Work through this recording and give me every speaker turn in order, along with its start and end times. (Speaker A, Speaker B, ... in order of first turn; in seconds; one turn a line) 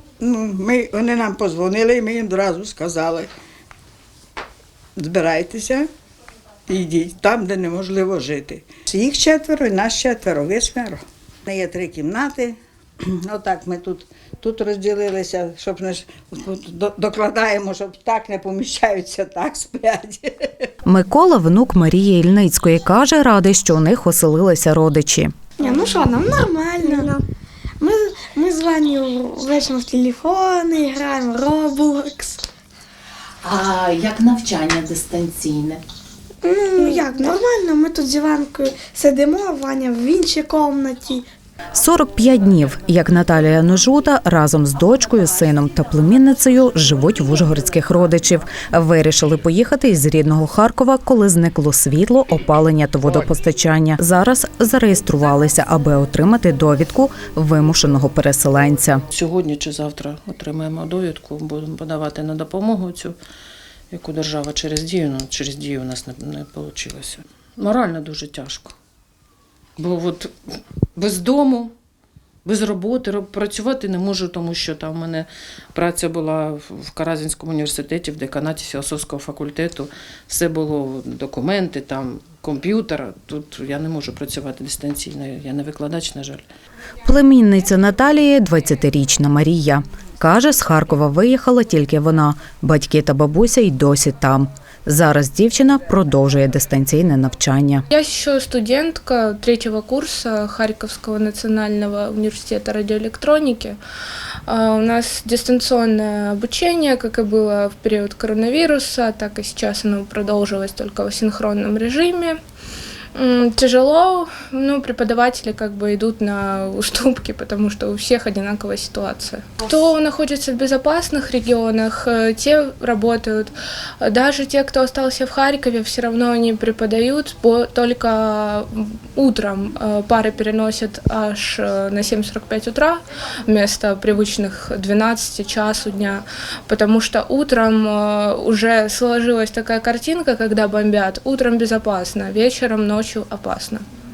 Speaker A: 0.2-3.3
Speaker A: 5.0-5.9
Speaker A: 6.7-20.7
Speaker B: 20.9-25.3
Speaker C: 25.6-27.2
Speaker C: 27.8-32.4
Speaker B: 33.4-35.8
Speaker C: 36.4-41.3
Speaker B: 41.7-59.0
Speaker D: 59.1-63.2
Speaker D: 63.9-68.7
Speaker D: 69.8-71.7
Speaker D: 72.4-86.4
Speaker B: 87.0-97.8
Speaker E: 97.9-103.8
Speaker E: 104.5-112.4
Speaker E: 113.1-143.8